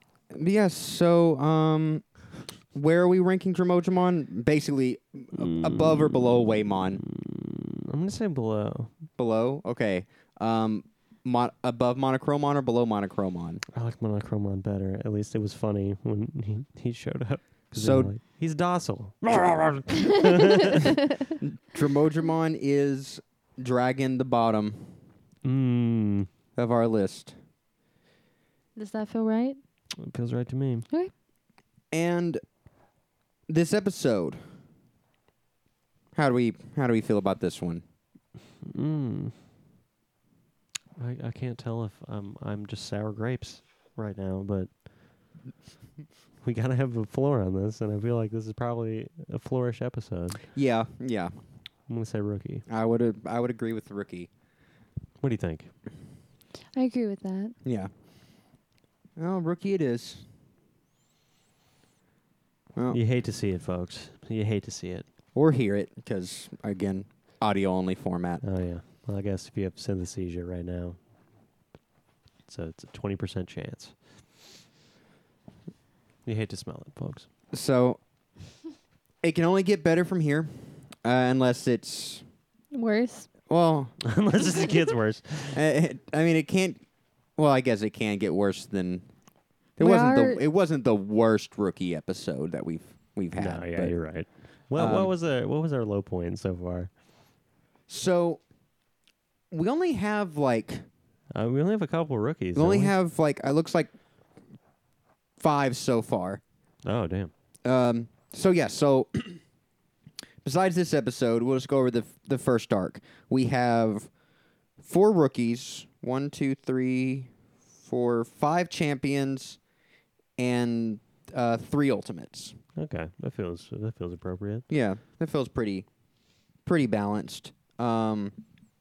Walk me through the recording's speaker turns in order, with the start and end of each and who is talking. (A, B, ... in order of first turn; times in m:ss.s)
0:00.3-0:02.1 A
0:02.7-0:07.0 A
0:05.4-0:08.9 B
0:09.2-0:13.6 A
0:13.7-0:21.0 B
0:17.7-0:18.1 A
0:21.4-0:25.0 A
0:25.4-0:26.3 B
0:26.6-0:27.4 A
0:28.8-0:29.6 C
0:30.0-0:30.9 B
0:31.9-0:32.4 A
0:33.5-0:34.4 A
0:36.1-0:37.8 A
0:38.6-0:39.4 B
0:41.0-0:44.9 B
0:46.4-0:50.4 B
0:50.5-0:51.4 A
0:51.9-0:52.6 B
0:52.7-0:54.3 A
0:55.2-0:55.7 B
0:56.7-0:57.6 C
0:57.6-0:57.9 A
0:59.2-1:00.3 A
1:02.9-1:05.1 B
1:05.4-1:08.4 A
1:08.4-1:11.0 B
1:12.5-1:14.0 B
1:16.2-1:17.3 B
1:17.5-1:18.0 A
1:19.2-1:22.2 A
1:22.7-1:23.3 C
1:23.5-1:24.0 A
1:24.0-1:25.6 B
1:25.5-1:26.8 A
1:27.4-1:29.1 A
1:29.8-1:34.0 A
1:29.8-1:30.4 C
1:33.4-1:36.9 B
1:34.8-1:35.1 A
1:37.9-1:38.4 A
1:39.5-1:40.9 A
1:41.3-1:43.0 B
1:42.6-1:43.9 A
1:45.4-1:46.4 A
1:46.9-1:47.3 B
1:47.6-1:49.4 A
1:50.4-1:54.1 A
1:54.8-1:59.6 A
2:00.4-2:02.6 A
2:02.8-2:04.6 B
2:04.7-2:05.9 A
2:06.6-2:08.3 A